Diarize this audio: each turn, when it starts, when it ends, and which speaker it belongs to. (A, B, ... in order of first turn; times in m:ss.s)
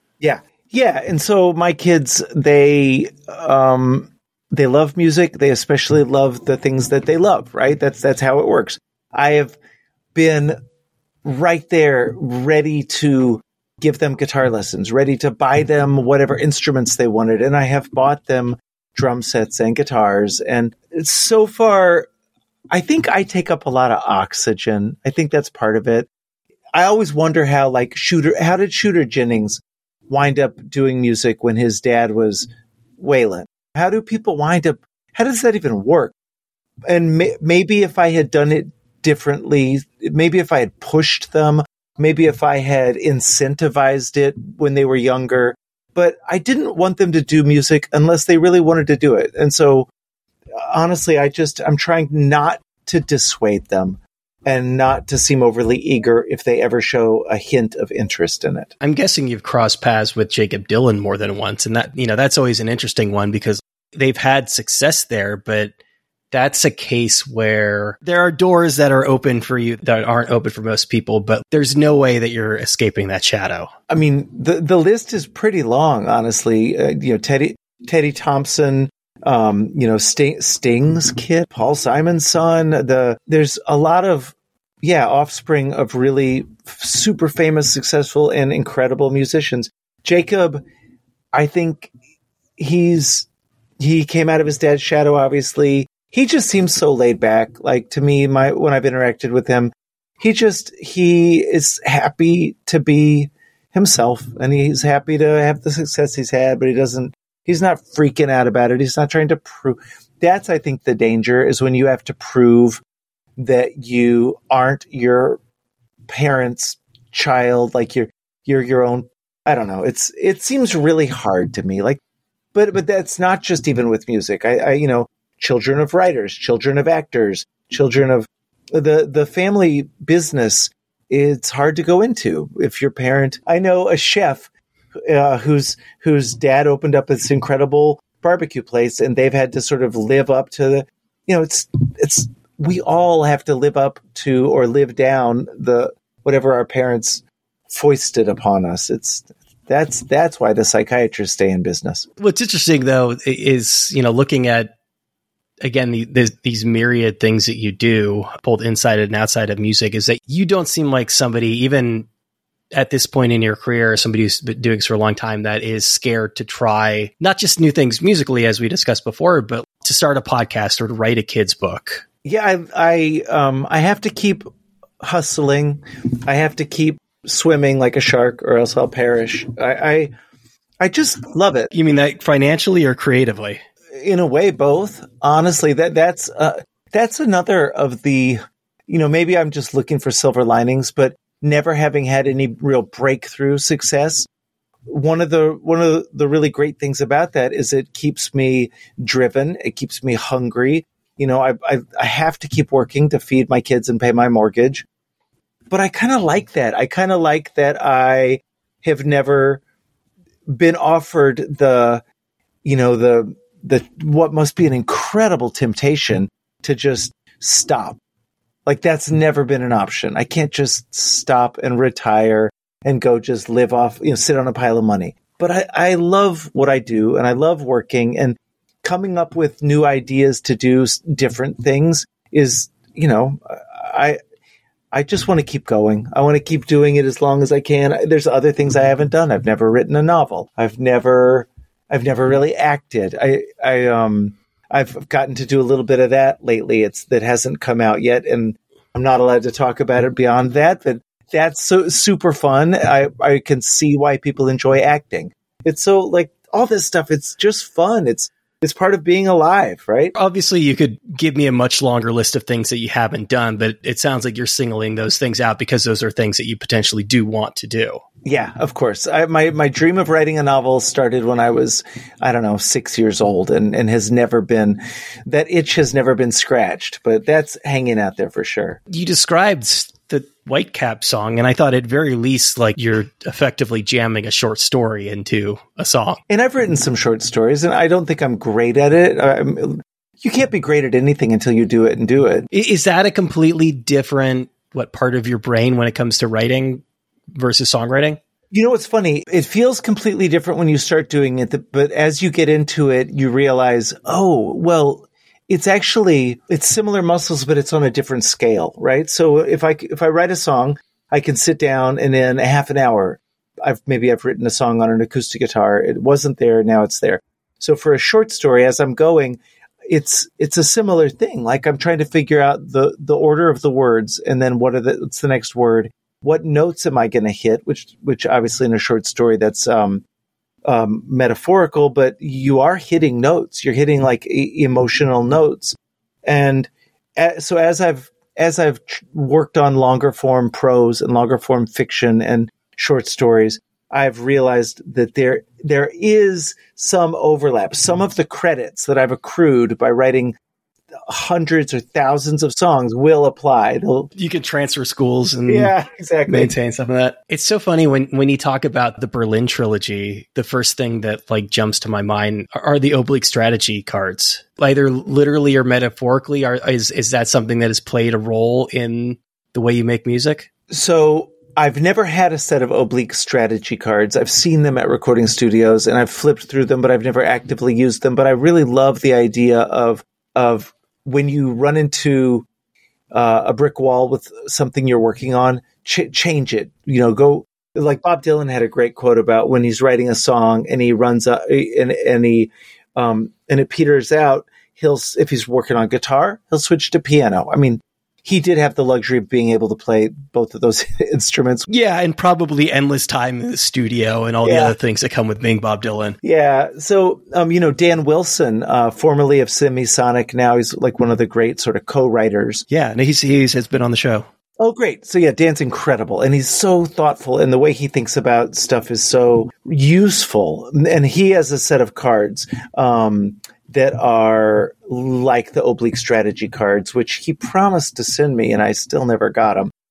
0:00.2-0:09.6 A
0:10.1-0:10.6 A
0:11.2-0:22.1 A
0:22.7-0:26.1 A
0:26.7-0:36.1 A
0:36.9-0:49.9 A
0:50.6-0:58.7 A
0:58.8-1:05.7 B
1:06.3-1:13.7 B
1:13.9-1:30.6 A
1:31.3-1:31.9 A
1:32.6-1:33.3 A
1:33.8-1:52.8 A
1:53.4-1:55.4 A
1:56.1-2:02.0 A
2:02.5-2:14.5 A
2:15.0-2:32.0 A
2:32.2-2:34.7 B
2:35.6-2:42.1 B
2:42.7-2:52.0 B
2:52.2-2:54.4 A
2:55.0-3:00.1 A
3:00.8-3:01.7 A
3:01.7-3:03.6 B
3:04.0-3:14.3 A
3:14.8-3:24.9 A
3:25.7-3:29.6 A
3:30.5-3:32.0 A
3:32.6-3:38.0 A
3:38.6-3:54.2 A
3:54.9-4:20.1 A
4:20.1-4:28.0 B
4:28.2-4:38.8 A
4:38.9-4:46.2 B
4:46.3-4:52.4 A
4:52.5-4:56.8 B
4:57.4-4:58.2 B
4:58.5-5:30.0 A
5:30.6-5:50.4 A
5:50.9-5:54.1 A
5:54.2-5:55.7 B
5:55.5-5:56.5 A
5:56.3-6:10.5 B
6:10.7-6:22.5 A
6:23.1-6:41.6 A
6:41.7-6:46.2 B
6:44.4-6:44.8 A
6:46.2-6:52.6 A
6:52.7-6:54.3 B
6:54.6-7:09.7 A